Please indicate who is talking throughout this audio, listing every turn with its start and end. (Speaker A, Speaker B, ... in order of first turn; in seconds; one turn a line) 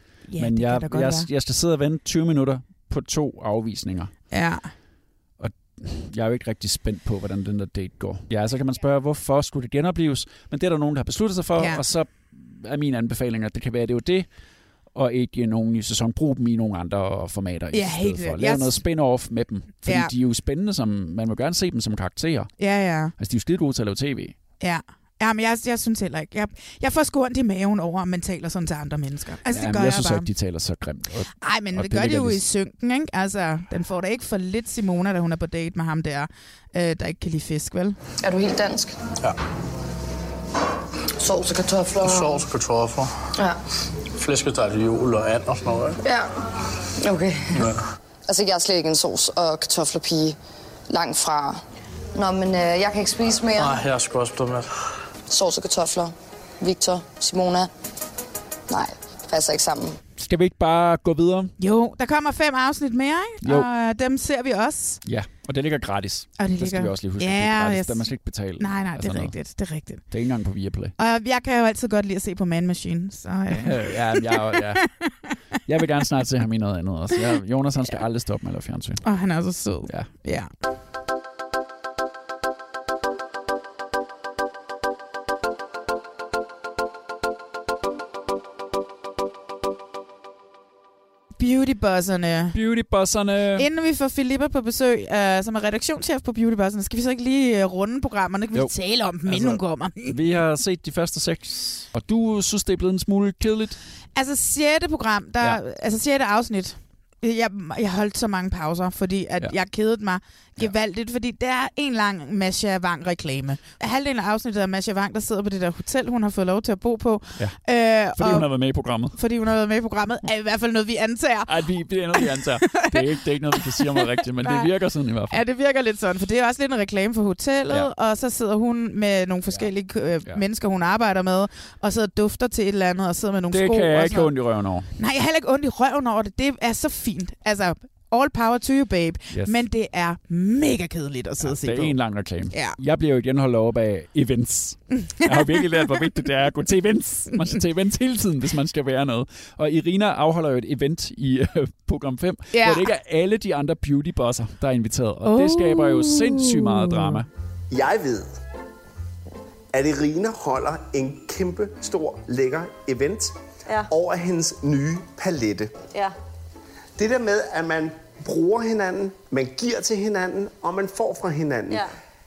Speaker A: 0.3-1.3
Speaker B: 0.4-4.1
Speaker A: 4.3-4.7
Speaker B: 5.4-14.3
Speaker A: 11.6-11.8
Speaker B: 14.9-22.5
Speaker A: 17.7-18.8
Speaker A: 19.8-20.1
Speaker A: 22.6-23.1
Speaker B: 23.2-24.3
Speaker A: 24.6-30.3
Speaker B: 29.5-32.4
Speaker A: 31.4-38.0
Speaker C: 38.2-38.9
Speaker C: 41.2-42.4
Speaker D: 42.0-43.1
Speaker D: 44.2-46.0
Speaker C: 47.0-47.7
Speaker D: 47.5-47.8
Speaker C: 48.3-50.4
Speaker C: 50.9-51.6
Speaker C: 52.1-53.8
Speaker D: 53.5-54.7
Speaker C: 55.3-57.7
Speaker C: 58.7-60.0
Speaker B: 60.2-61.5
Speaker A: 61.6-65.0
Speaker B: 63.4-63.7
Speaker B: 65.0-69.3
Speaker A: 66.4-70.0
Speaker B: 70.1-70.9
Speaker A: 71.0-75.1
Speaker B: 73.5-74.8
Speaker B: 75.7-79.0
Speaker A: 79.0-80.5
Speaker A: 91.4-92.6
Speaker B: 92.5-93.7
Speaker A: 93.5-100.2
Speaker B: 99.2-103.8
Speaker A: 104.2-118.5
Speaker B: 118.1-119.2
Speaker A: 119.1-121.5
Speaker B: 121.5-125.4
Speaker A: 122.1-123.0
Speaker A: 123.6-124.7
Speaker A: 125.3-134.3
Speaker B: 133.5-134.9
Speaker A: 135.0-142.0
Speaker B: 139.3-139.6
Speaker B: 141.4-157.3
Speaker A: 142.5-142.8
Speaker A: 145.0-146.1
Speaker A: 152.5-152.9
Speaker A: 155.2-157.2
Speaker E: 157.7-158.3
Speaker E: 159.7-163.3
Speaker E: 163.9-165.7
Speaker E: 167.0-171.8